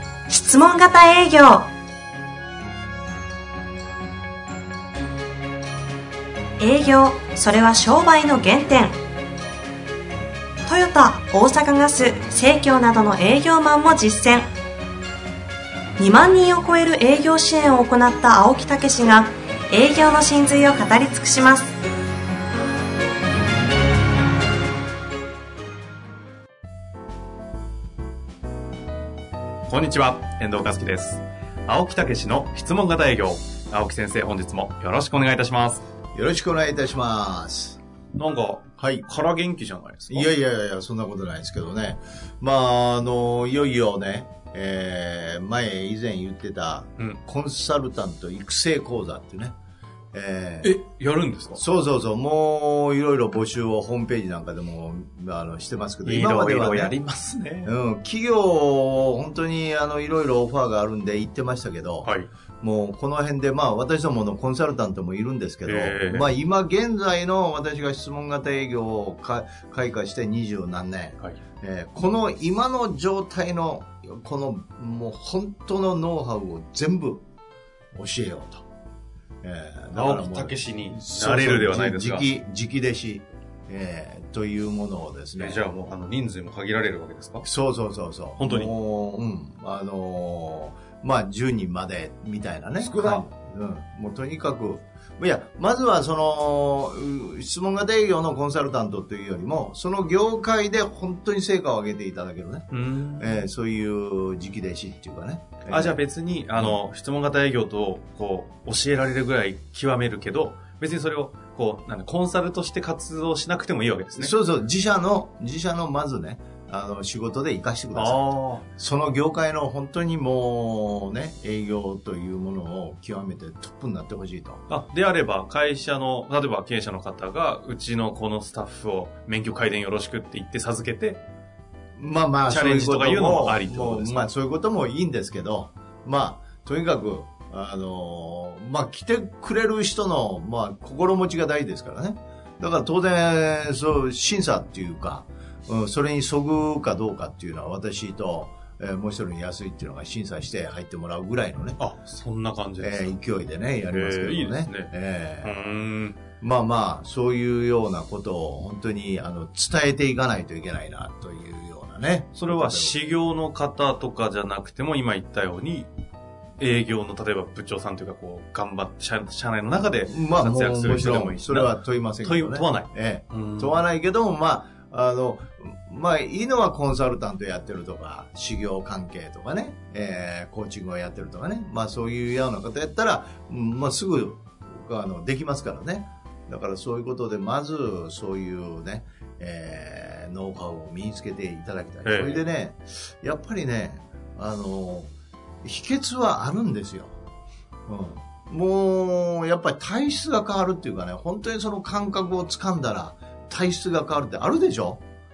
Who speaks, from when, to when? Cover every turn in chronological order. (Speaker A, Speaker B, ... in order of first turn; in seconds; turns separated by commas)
Speaker A: 0.3-1.6, Speaker A: 6.6-8.9, Speaker A: 10.7-14.5, Speaker A: 16.0-21.7, Speaker B: 29.7-35.8, Speaker C: 36.1-37.8, Speaker B: 38.2-40.3, Speaker C: 38.8-39.0, Speaker C: 40.1-49.5, Speaker C: 50.1-50.8, Speaker B: 50.6-51.6, Speaker C: 51.6-57.0, Speaker B: 56.0-57.7, Speaker C: 57.6-62.1, Speaker B: 62.0-62.3, Speaker C: 62.6-77.2, Speaker B: 65.7-66.3, Speaker C: 78.0-78.6, Speaker C: 79.4-85.8, Speaker B: 79.9-82.3, Speaker B: 85.4-87.5, Speaker C: 87.5-106.0, Speaker B: 88.4-88.7, Speaker B: 92.8-93.2, Speaker B: 102.7-103.5, Speaker B: 105.7-114.3, Speaker C: 114.2-124.6, Speaker B: 117.9-118.7, Speaker B: 124.7-131.2, Speaker C: 132.0-151.8, Speaker B: 132.5-134.3, Speaker B: 151.8-153.2, Speaker C: 152.8-155.6, Speaker B: 153.9-156.2, Speaker C: 156.4-163.0, Speaker B: 162.3-165.9, Speaker B: 166.6-173.8, Speaker C: 170.1-195.1, Speaker B: 192.1-192.4, Speaker C: 195.6-197.2, Speaker C: 197.9-205.0